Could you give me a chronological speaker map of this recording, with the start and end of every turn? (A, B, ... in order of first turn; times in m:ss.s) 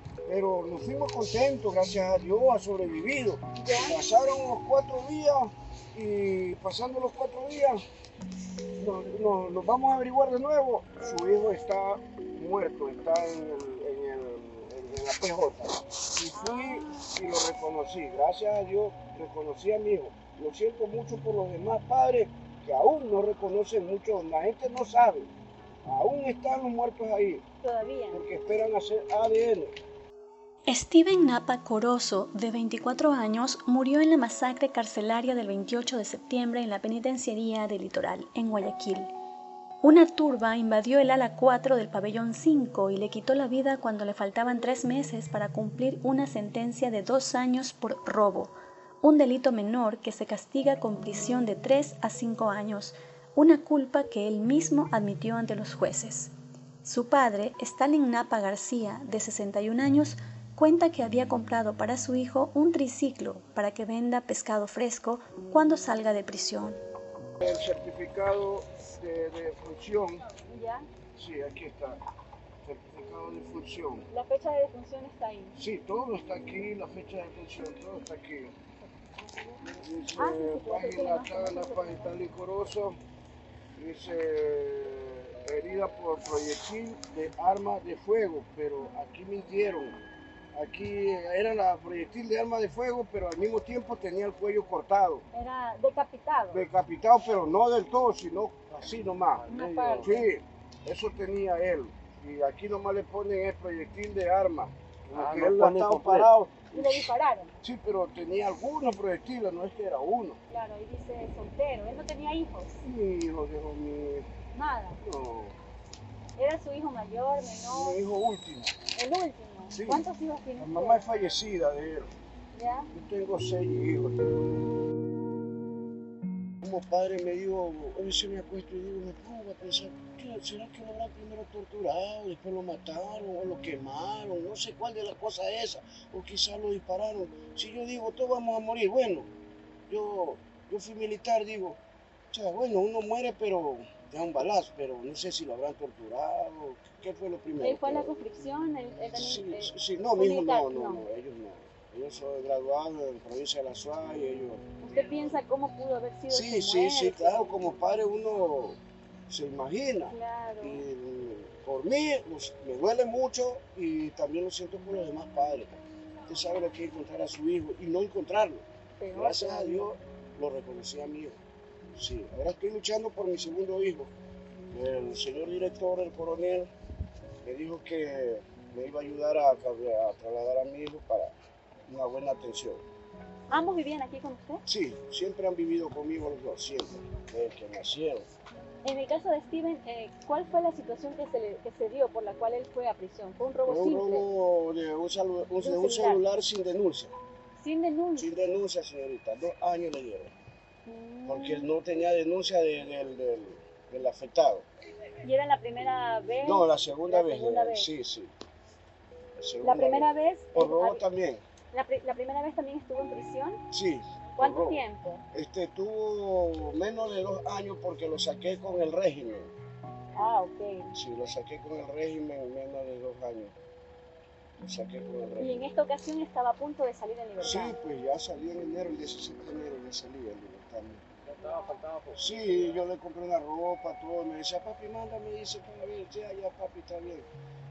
0:00.3-0:07.8 A
0:03.6-0:04.0 B
0:08.8-0:25.3 A
0:16.3-0:17.2 B
0:25.8-0:27.4 A
0:27.6-0:28.2 B
0:28.1-0:29.8 A
0:30.7-0:39.1 C
0:39.8-0:56.3 C
0:56.8-1:06.8 C
1:07.4-1:10.2 A
1:10.5-1:10.9 B
1:11.2-1:12.0 A
1:12.6-1:14.1 A
1:14.1-1:15.6 B
1:15.6-1:18.5 A
1:19.7-1:23.0 A
1:20.2-1:22.1 B
1:23.8-1:30.0 A
1:30.5-1:35.2 A
1:35.3-1:36.7 B
1:36.5-1:47.1 A
1:39.4-1:40.0 D
1:39.5-1:40.3 B
1:45.1-1:46.3 D
1:46.7-1:47.5 B
1:47.6-1:50.4 A
1:50.5-1:52.8 B
1:52.8-1:54.3 A
1:54.5-1:55.0 B
1:55.0-1:55.6 A
1:56.4-1:58.0 B
1:57.7-1:58.8 A
1:59.0-2:01.1 B
1:59.7-2:00.1 A
2:00.6-2:02.1 A
2:02.5-2:02.9 B
2:02.9-2:04.5 A
2:06.6-2:19.3 A
2:19.9-2:21.8 A
2:22.3-2:28.1 A
2:27.6-2:31.0 B
2:29.1-2:34.6 A
2:34.8-2:37.7 B
2:36.3-2:38.8 A
2:39.3-2:51.4 A
2:40.1-2:40.8 B
2:49.0-2:49.9 B
2:52.0-2:54.1 A
2:54.7-2:56.7 A
2:57.4-3:01.3 A
3:01.9-3:02.8 A
3:03.5-3:04.6 B
3:04.7-3:08.3 A
3:08.8-3:14.2 B
3:13.7-3:17.1 A
3:15.6-3:16.2 B
3:17.6-3:18.3 B
3:18.2-3:20.3 A
3:20.9-3:21.7 B
3:21.3-3:24.7 A
3:25.2-3:27.9 B
3:26.4-3:28.3 A
3:29.4-3:31.4 A
3:29.6-3:31.0 B
3:31.7-3:33.6 B
3:33.7-3:39.5 A
3:34.4-3:35.2 B
3:40.2-3:40.9 B
3:40.9-3:43.6 A
3:44.6-3:45.7 A
3:45.4-3:47.8 B
3:47.4-3:51.0 A
3:51.3-3:52.8 D
3:51.4-3:51.9 B
3:52.2-3:57.3 A